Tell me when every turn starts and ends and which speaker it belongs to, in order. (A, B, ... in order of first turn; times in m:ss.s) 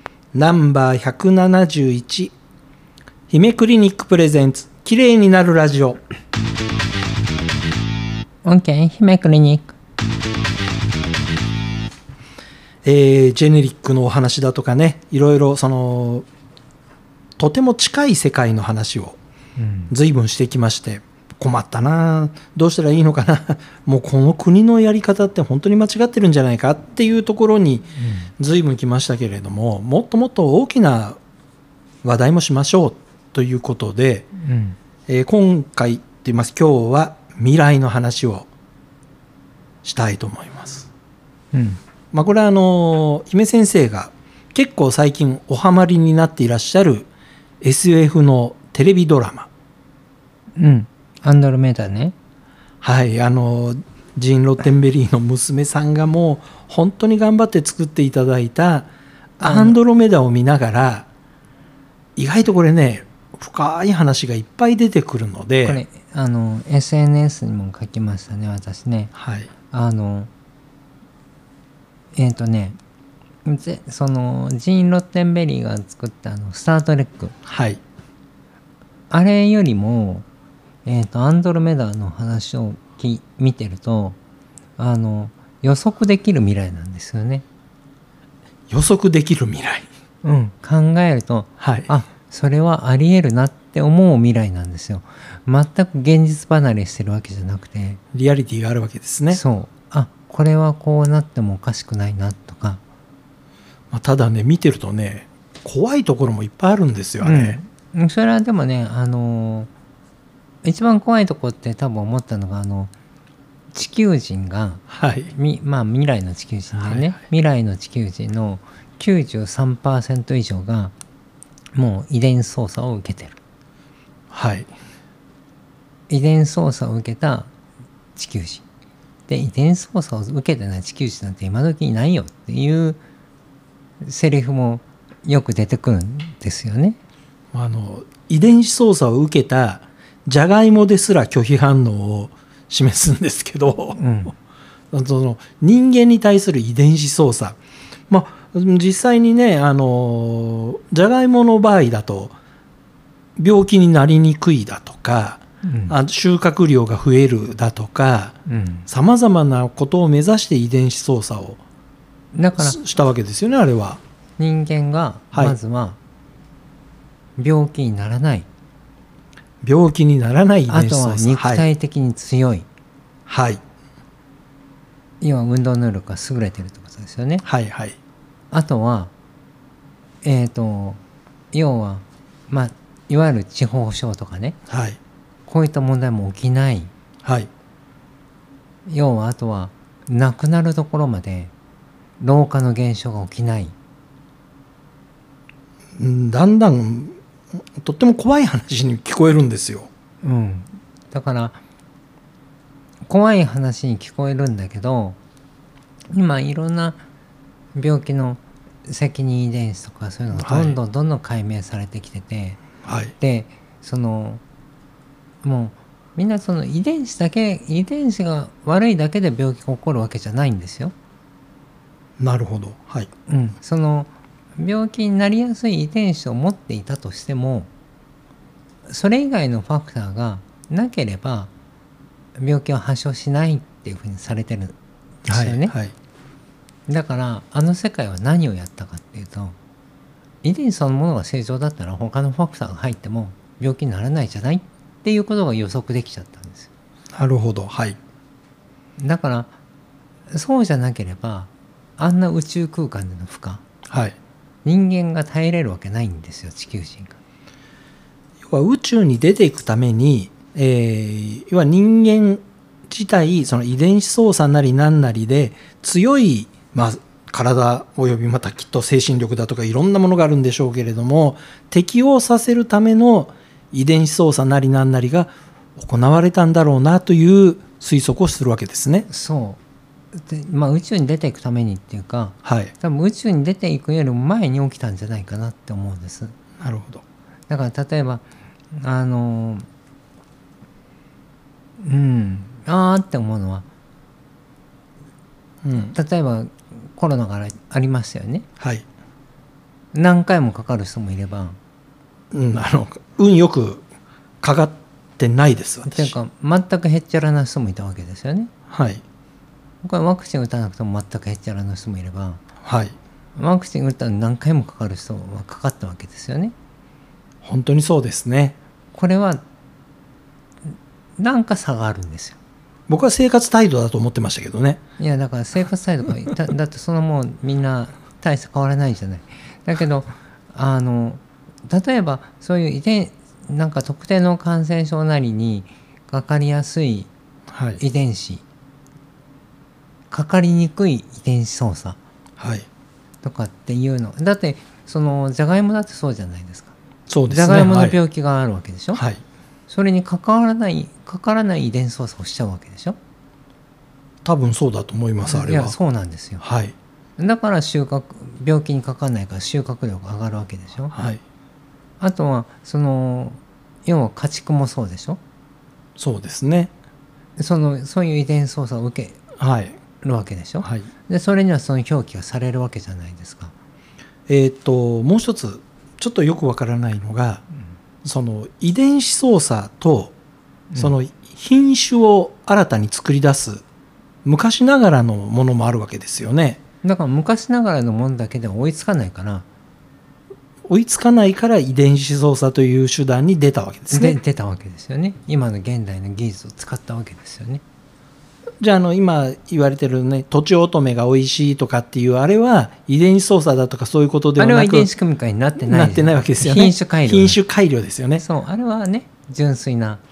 0:00.3-0:02.3 A
0:03.3-0:06.0 A
0:08.4-0:09.8 B
0:12.8-0:16.3 A
0:17.4-0:19.2 A
0:19.6-0:19.9 B
0:19.9-0:31.2 A
0:28.0-0:28.3 B
0:32.0-0:34.3 A
0:34.4-0:34.8 B
0:35.1-0:38.5 A
0:39.8-0:40.9 A
0:41.5-0:41.8 B
0:42.1-0:47.1 A
0:47.6-0:49.5 A
0:50.6-0:52.1 B
0:52.8-1:01.1 A
0:59.4-0:59.8 B
1:02.2-1:05.8 A
1:05.6-1:09.1 B
1:09.2-1:09.5 A
1:09.7-1:10.3 B
1:12.2-1:12.8 B
1:13.4-1:17.4 B
1:17.5-1:17.8 A
1:19.1-1:20.3 B
1:20.8-1:24.2 B
1:24.8-1:27.4 B
1:28.7-1:29.9 A
1:30.2-1:38.0 B
1:31.6-1:31.9 A
1:38.1-1:39.4 A
1:39.3-1:42.8 B
1:43.9-1:47.6 A
1:47.2-1:49.7 B
1:50.6-1:52.9 B
1:53.7-2:00.9 B
1:54.9-1:55.3 A
1:56.8-1:57.1 A
2:01.7-2:03.4 B
2:04.3-2:04.7 A
2:06.1-2:07.5 B
2:08.2-2:08.6 B
2:09.3-2:13.0 B
2:14.0-2:17.0 B
2:17.5-2:24.0 A
2:24.0-2:24.3 B
2:24.9-2:27.6 A
2:28.1-2:32.4 A
2:33.4-2:38.4 A
2:35.6-2:36.0 B
2:38.5-2:38.9 B
2:38.9-2:41.6 A
2:42.3-2:42.8 B
2:42.6-2:44.0 A
2:44.4-2:46.0 B
2:47.4-2:48.5 B
2:49.6-2:51.7 A
2:50.7-2:52.7 B
2:53.3-2:53.6 A
2:55.2-2:57.4 B
2:57.4-2:58.0 A
2:58.5-2:59.1 B
3:00.2-3:01.0 B
3:01.5-3:04.6 B
3:04.7-3:05.0 A
3:05.5-3:06.9 B
3:07.2-3:07.5 A
3:08.9-3:11.5 B
3:12.2-3:13.7 B
3:16.0-3:17.2 A
3:17.8-3:19.9 A
3:20.2-3:21.6 B
3:23.1-3:25.2 B
3:26.1-3:27.0 B
3:27.8-3:32.6 B
3:30.3-3:30.8 A
3:32.8-3:33.1 A
3:33.2-3:34.4 B
3:35.4-3:40.9 B
3:42.2-3:43.1 A
3:43.3-3:47.7 B
3:48.9-3:51.5 B
3:52.4-3:55.7 B
3:55.3-3:55.9 A
3:56.9-3:59.6 B
4:00.4-4:06.7 B
4:07.1-4:08.0 A
4:09.0-4:09.5 B
4:10.3-4:13.6 B
4:13.9-4:14.2 A
4:14.6-4:17.2 B
4:18.4-4:39.1 A
4:39.1-4:39.6 B
4:40.1-4:46.4 B
4:42.4-4:42.7 A
4:46.6-4:47.0 A
4:47.5-4:49.7 B
4:51.8-4:53.7 B
4:55.6-4:56.0 A
4:55.9-4:58.5 B
4:58.6-4:58.8 A
4:59.9-5:01.6 B
5:02.3-5:03.8 A
5:04.4-5:06.2 A
5:05.9-5:08.5 B
5:08.7-5:09.0 A
5:09.8-5:12.4 B
5:12.6-5:13.0 A
5:13.4-5:16.5 B
5:17.4-5:18.6 A
5:18.9-5:19.4 B
5:20.7-5:22.4 B
5:22.9-5:24.8 A
5:25.0-5:37.1 B
5:37.5-5:37.8 A
5:37.8-5:38.4 B
5:40.1-5:42.0 B
5:42.4-5:42.7 A
5:43.2-5:46.7 B
5:47.1-5:48.0 A
5:47.3-5:49.0 B
5:48.9-5:49.2 A
5:49.7-5:53.0 B
5:54.2-5:55.8 A
5:55.3-5:56.4 B
5:56.4-5:56.8 A
5:57.2-6:00.9 B
6:00.9-6:01.2 A
6:02.0-6:05.2 B
6:06.0-6:06.7 A
6:07.4-6:09.2 B
6:09.4-6:09.8 A
6:10.0-6:13.5 B
6:10.6-6:10.9 A
6:14.3-6:17.4 A
6:18.0-6:20.2 A
6:20.8-6:23.6 A
6:24.2-6:26.6 A
6:26.8-6:29.5 B
6:30.7-6:34.2 A
6:33.9-6:37.6 B
6:38.6-6:44.9 A
6:44.4-6:47.4 B
6:45.6-6:48.2 A
6:48.2-6:50.0 B